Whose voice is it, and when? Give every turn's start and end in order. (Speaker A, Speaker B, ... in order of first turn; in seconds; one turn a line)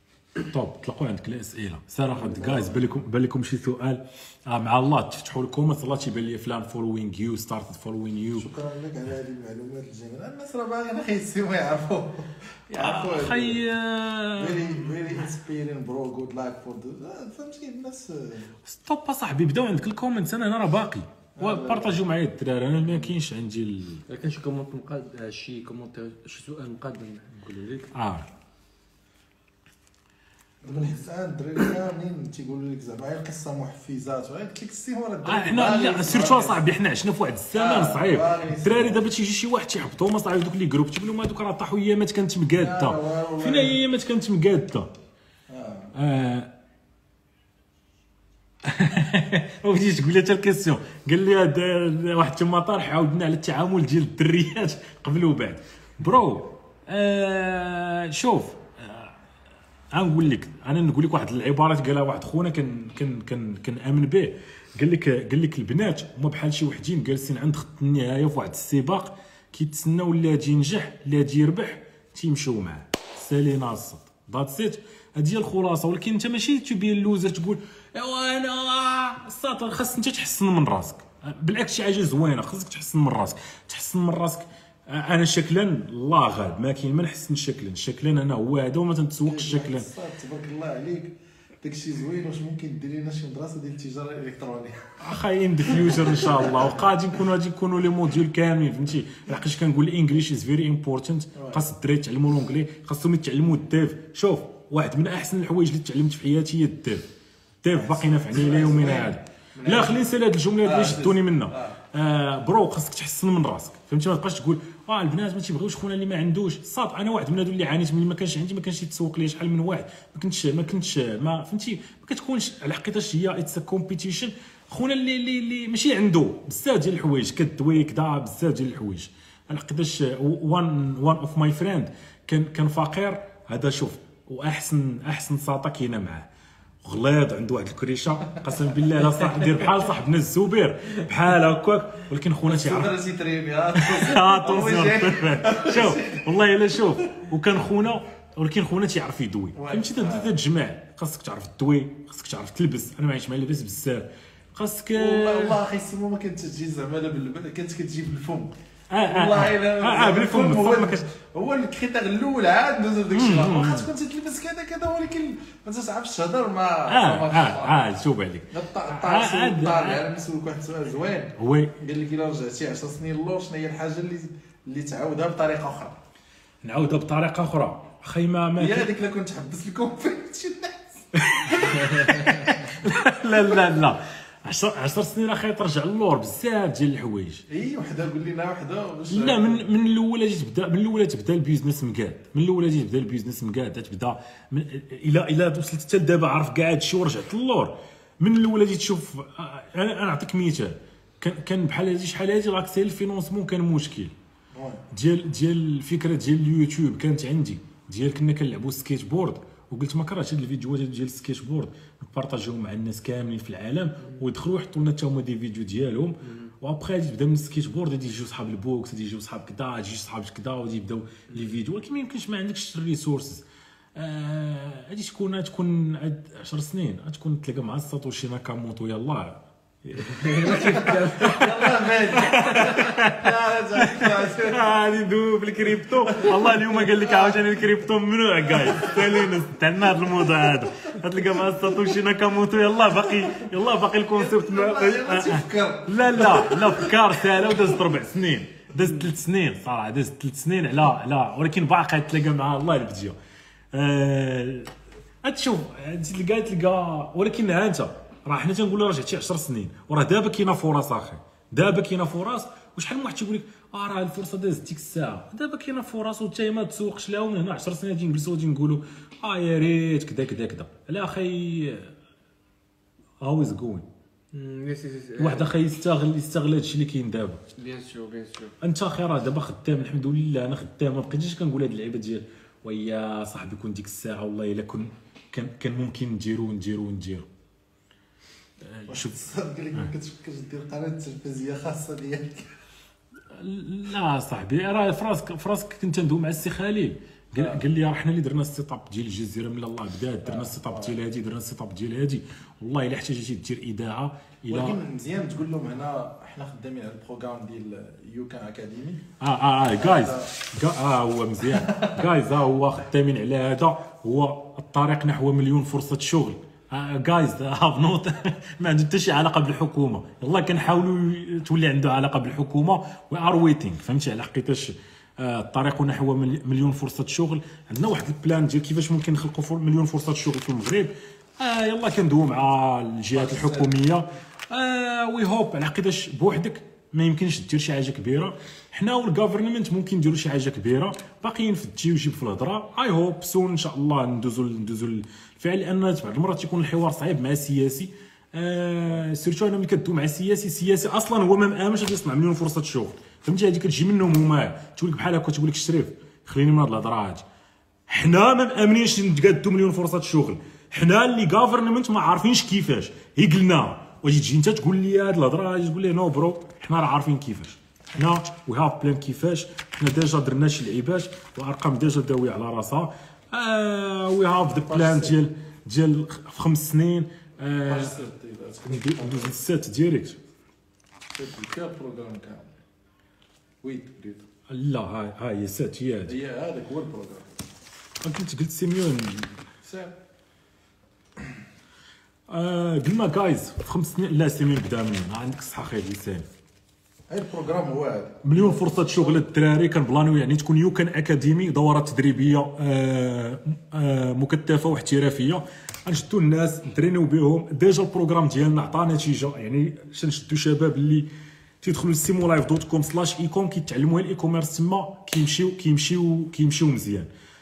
Speaker A: 0.4-8.5
Speaker B: 2.1-3.0
Speaker B: 8.4-13.6
Speaker A: 12.7-14.9
Speaker B: 14.4-18.5
Speaker A: 18.6-24.0
Speaker B: 21.4-22.0
Speaker C: 24.1-27.9
Speaker A: 27.9-28.2
Speaker B: 30.6-36.6
Speaker A: 35.2-44.9
Speaker B: 37.5-39.1
Speaker B: 42.6-43.8
Speaker B: 45.5-45.9
Speaker A: 45.9-46.5
Speaker A: 48.6-59.1
Speaker A: 59.9-89.9
Speaker B: 89.2-94.9
Speaker A: 95.0-107.1
Speaker B: 95.6-96.8
Speaker A: 107.6-136.3
Speaker B: 107.7-110.1
Speaker B: 110.6-111.8
Speaker A: 136.8-143.0
Speaker B: 142.4-146.3
Speaker A: 143.7-155.6
Speaker B: 149.5-150.3
Speaker B: 154.9-158.5
Speaker A: 158.9-161.0
Speaker B: 159.1-167.8
Speaker A: 163.1-163.9
Speaker A: 166.9-170.0
Speaker B: 168.5-176.0
Speaker A: 171.4-171.8
Speaker A: 176.6-178.9
Speaker B: 178.6-183.9
Speaker A: 181.2-187.4
Speaker B: 187.5-189.6
Speaker A: 189.1-204.1
Speaker B: 204.5-204.8
Speaker A: 204.9-231.6
Speaker C: 230.2-231.5
Speaker B: 230.5-234.7
Speaker A: 232.1-253.2
Speaker B: 236.2-237.5
Speaker B: 238.5-239.3
Speaker B: 240.2-240.7
Speaker B: 241.2-242.0
Speaker B: 242.8-243.6
Speaker B: 244.1-247.7
Speaker A: 253.7-271.9
Speaker A: 273.2-273.9
Speaker C: 274.3-275.5
Speaker A: 275.2-277.4
Speaker C: 277.6-278.5
Speaker A: 278.6-287.2
Speaker A: 288.6-289.9
Speaker B: 288.9-292.5
Speaker A: 293.3-304.8
Speaker B: 300.2-300.9
Speaker B: 304.5-309.1
Speaker A: 309.2-357.2
Speaker B: 309.8-310.3
Speaker B: 311.5-312.0
Speaker B: 333.3-333.6
Speaker A: 357.9-378.0
Speaker B: 374.5-375.1
Speaker B: 377.6-379.4
Speaker A: 378.6-380.2
Speaker B: 381.1-382.5
Speaker B: 383.6-384.2
Speaker A: 384.5-386.1
Speaker B: 386.1-387.4
Speaker A: 388.0-389.5
Speaker B: 389.6-389.9
Speaker A: 392.3-396.3
Speaker B: 397.1-399.2
Speaker A: 398.2-411.1
Speaker A: 411.6-417.1